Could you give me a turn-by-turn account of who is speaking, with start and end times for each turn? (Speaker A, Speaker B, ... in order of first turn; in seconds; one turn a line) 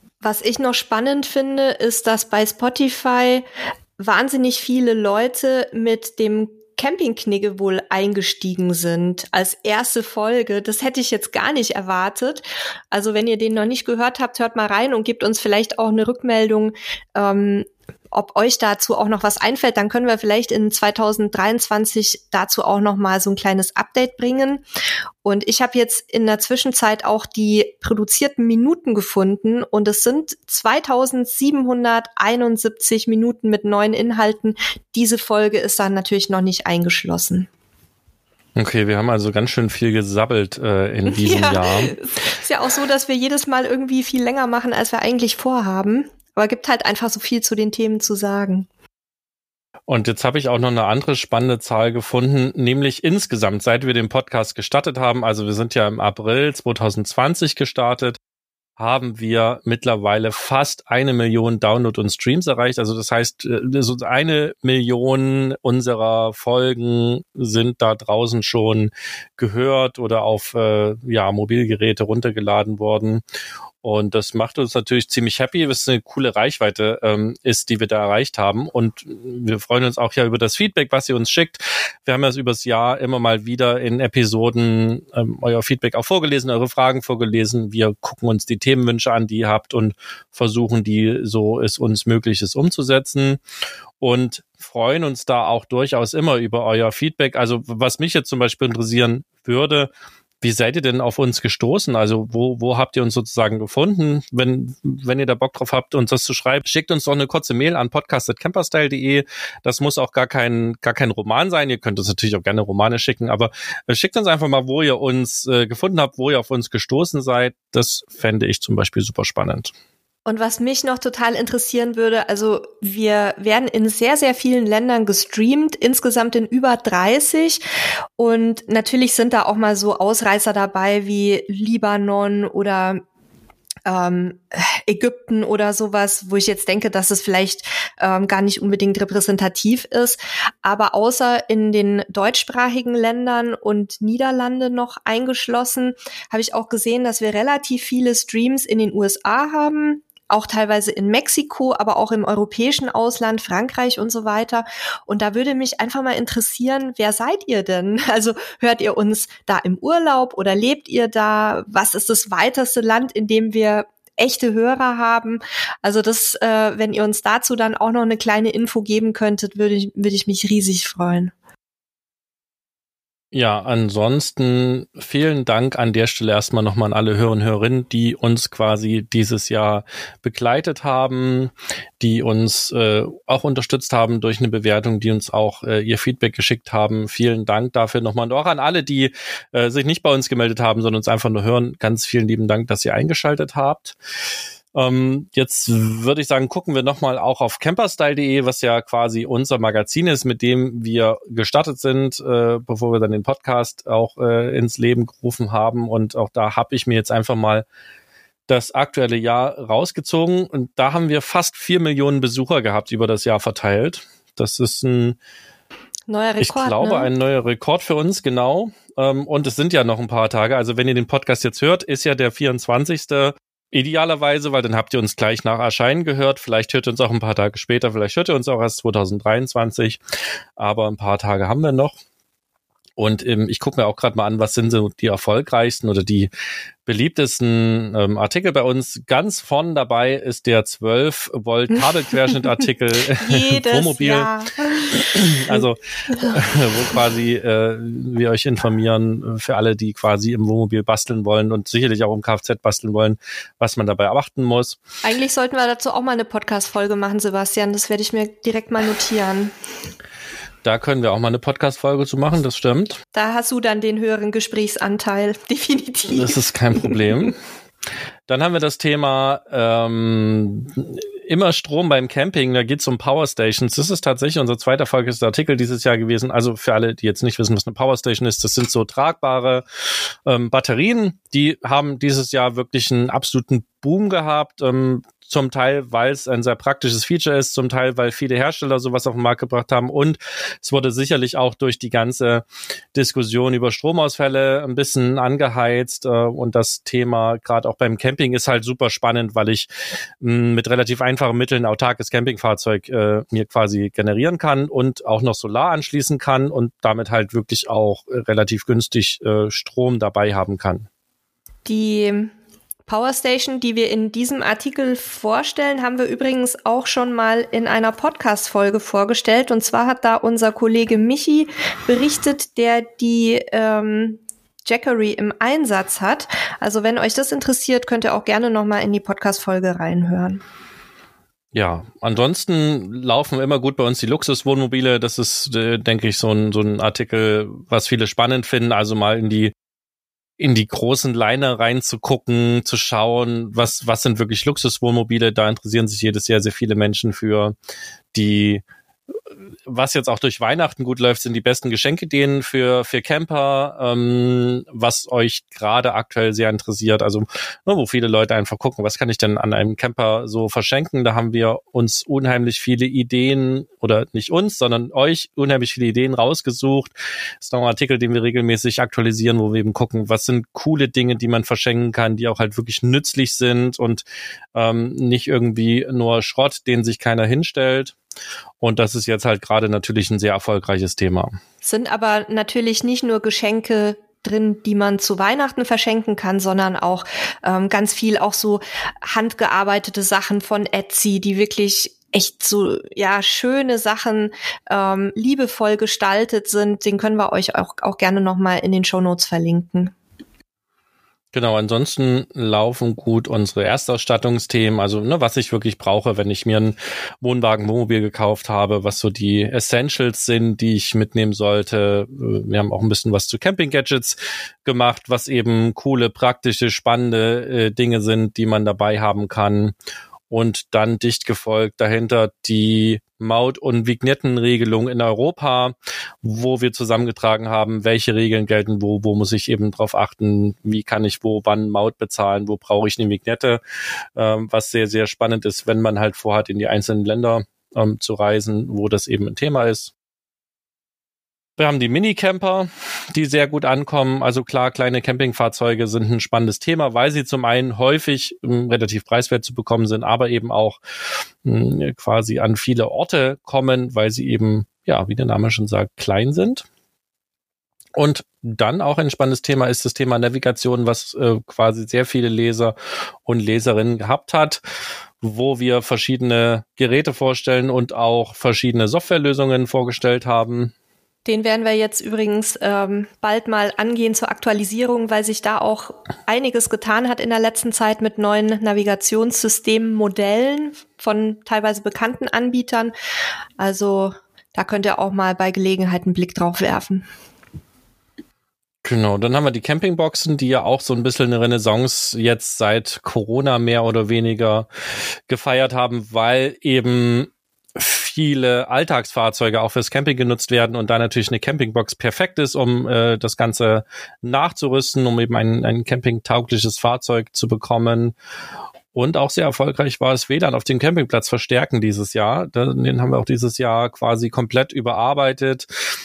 Speaker A: 0.2-3.4
Speaker A: 4.0-24.6
Speaker A: 25.2-37.5
Speaker B: 38.5-41.9
Speaker A: 41.1-48.7
Speaker B: 49.9-58.2
Speaker B: 58.8-73.2
Speaker B: 73.8-93.4
Speaker B: 94.0-99.9
Speaker B: 100.4-119.7
Speaker A: 120.2-127.6
Speaker A: 128.2-133.0
Speaker A: 133.8-171.3
Speaker B: 173.3-194.0
Speaker B: 194.7-207.6
Speaker B: 208.5-215.2
Speaker A: 216.1-217.1
Speaker B: 216.4-230.0
Speaker B: 230.6-232.0
Speaker B: 233.0-236.3
Speaker B: 236.8-244.3
Speaker A: 243.2-246.3
Speaker B: 245.0-254.8
Speaker A: 255.0-259.5
Speaker B: 260.6-263.0
Speaker A: 263.1-266.9
Speaker B: 266.1-267.4
Speaker B: 268.3-279.6
Speaker B: 280.2-299.7
Speaker B: 300.2-310.9
Speaker A: 311.6-312.3
Speaker A: 312.9-330.4
Speaker B: 331.5-339.5
Speaker B: 340.4-347.5
Speaker B: 348.1-348.6
Speaker B: 349.6-374.0
Speaker B: 374.5-377.9
Speaker B: 378.6-381.4
Speaker A: 381.6-399.9
Speaker B: 401.3-419.7
Speaker B: 420.3-433.6
Speaker B: 434.1-439.9
Speaker B: 441.6-450.8
Speaker B: 451.4-456.6
Speaker B: 457.9-462.7
Speaker B: 463.2-464.6
Speaker B: 465.2-470.7
Speaker A: 471.2-482.9
Speaker A: 483.6-487.1
Speaker B: 488.8-494.7
Speaker B: 495.3-508.1
Speaker B: 508.9-515.7